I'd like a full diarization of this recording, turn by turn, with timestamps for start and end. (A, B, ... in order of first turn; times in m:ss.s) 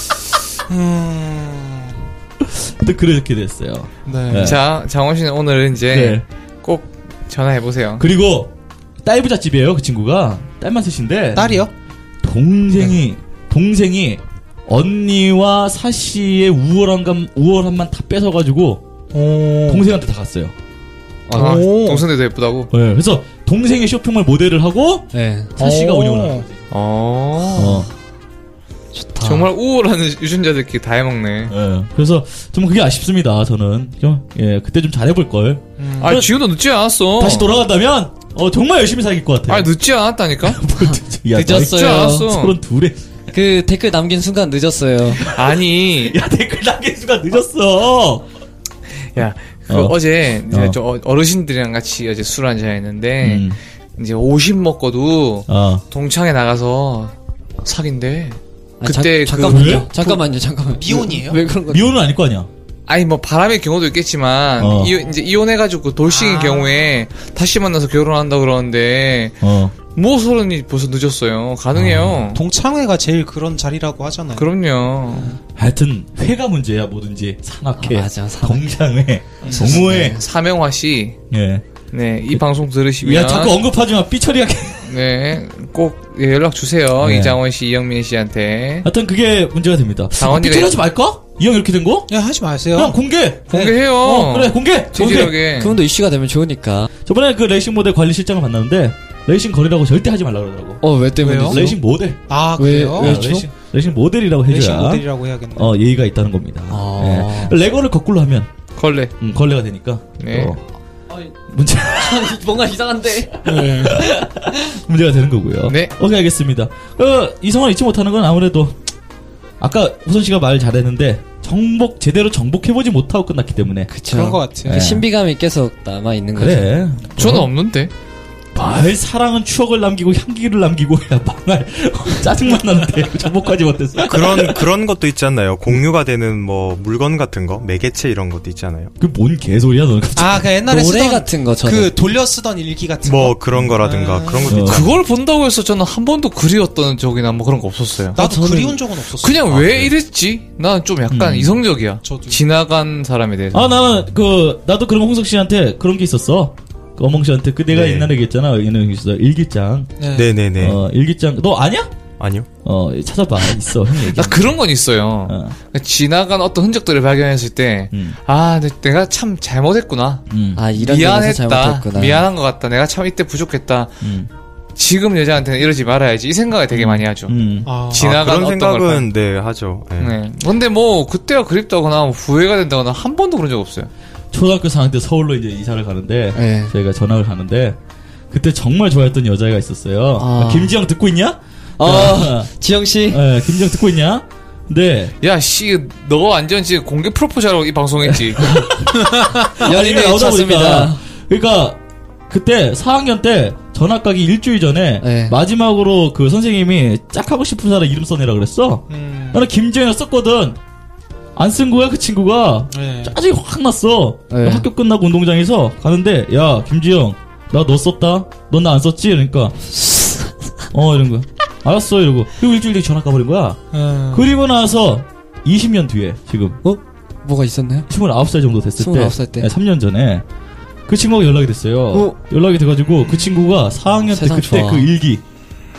0:00.7-0:02.0 A
0:02.4-0:04.6 B
0:04.1-0:04.5 A
0:04.3-0:08.0 C
0:05.9-0:06.2 B
0:08.0-0:08.5 B
0:09.0-0:11.7 B
0:11.4-0:11.7 A
0:12.2-0:18.8 B
0:19.1-0:19.8 A
0:19.7-0:20.6 B
0:21.3-0:22.0 A
0:21.3-0:22.7 C
0:21.3-0:21.6 D
0:22.7-0:26.6 B
0:25.1-0:25.5 D
0:25.6-0:26.5 A
0:26.7-0:27.8 C
0:27.5-0:27.9 B
0:28.9-0:29.5 D
0:29.2-0:31.6 C
0:31.5-0:36.3 B
0:35.8-0:36.2 A
0:36.0-0:37.5 C
0:37.2-0:39.7 B
0:39.5-0:40.7 C
0:40.4-0:43.0 B
0:40.8-0:42.3 D
0:41.4-0:42.6 C
0:43.3-0:45.2 D
0:45.2-0:48.2 B
0:45.2-0:46.2 C
0:49.2-0:57.1 C
0:49.7-0:50.0 B
0:50.5-0:50.8 B
0:53.2-0:53.6 B
0:55.5-0:55.8 B
0:57.6-0:59.8 C
0:58.8-1:01.9 D
0:59.4-0:59.9 B
0:59.9-1:01.5 A
1:01.7-1:02.5 B
1:02.9-1:09.4 C
1:04.6-1:04.9 B
1:06.0-1:06.8 A
1:09.4-1:09.7 B
1:10.0-1:12.4 C
1:11.9-1:14.5 A
1:14.4-1:15.4 C
1:15.6-1:20.2 B
1:17.8-1:18.7 D
1:19.4-1:19.8 A
1:19.5-1:20.2 D
1:19.5-1:21.2 C
1:21.3-1:21.6 B
1:21.9-1:23.6 C
1:23.0-1:24.8 B
1:24.8-1:28.9 C
1:27.0-1:27.4 B
1:28.8-1:32.1 B
1:30.1-1:30.8 C
1:32.1-1:33.0 A
1:32.7-1:35.4 B
1:33.5-1:35.8 C
1:35.1-1:36.9 D
1:37.1-1:42.3 B
1:40.8-1:41.8 D
1:41.2-1:41.6 A
1:42.3-1:43.2 A
1:42.6-1:43.5 D
1:43.0-1:48.5 B
1:44.5-1:45.8 A
1:46.7-1:47.6 D
1:48.8-1:49.2 C
1:49.2-1:50.6 B
1:50.2-1:50.5 C
1:51.5-1:52.4 B
1:51.9-1:53.4 D
1:53.3-1:58.8 B
1:53.4-1:54.1 A
1:55.7-1:55.9 C
1:59.6-2:03.9 B
2:03.9-2:06.8 D
2:04.1-2:04.9 A
2:04.7-2:05.1 B
2:06.4-2:07.5 B
2:07.2-2:07.9 C
2:08.5-2:14.7 B
2:14.0-2:18.9 E
2:19.0-2:20.5 B
2:20.2-2:24.7 A
2:20.6-2:22.0 D
2:23.0-2:25.0 E
2:24.5-2:24.9 B
2:24.6-2:28.2 C
2:28.2-2:28.8 D
2:28.2-2:29.8 A
2:29.0-2:33.7 C
2:31.1-2:31.6 B
2:32.0-2:32.4 A
2:33.5-2:39.9 B
2:37.7-2:38.1 E
2:40.0-2:40.3 A
2:40.1-2:40.8 E
2:40.6-2:41.9 B
2:42.2-2:42.5 E
2:42.6-2:44.6 B
2:44.1-2:50.2 C
2:45.3-2:45.6 B
2:47.9-2:48.2 B
2:50.3-2:50.6 B
2:50.6-2:52.3 D
2:50.8-2:54.0 C
2:54.0-2:54.3 B
2:54.8-2:57.4 C
2:56.7-2:57.7 B
2:57.7-2:58.1 A
2:57.9-2:59.1 C
2:57.9-3:00.2 E
3:00.0-3:03.9 C
3:04.3-3:07.8 B
3:06.3-3:06.7 D
3:08.3-3:12.5 B
3:10.2-3:10.8 D
3:11.8-3:13.2 D
3:13.0-3:15.1 B
3:15.2-3:18.5 C
3:18.0-3:21.8 B
3:19.0-3:19.5 A
3:19.6-3:21.0 D
3:22.3-3:30.6 B
3:25.0-3:25.4 D
3:28.9-3:29.5 A
3:31.4-3:39.6 B
3:32.7-3:33.2 A
3:34.3-3:34.7 D
3:39.7-3:40.3 D
3:40.7-3:46.6 B
3:43.7-3:44.3 A
3:46.6-3:47.9 D
3:47.9-3:50.2 B
3:48.8-3:49.5 D
3:50.9-3:55.2 B
3:54.1-3:54.9 D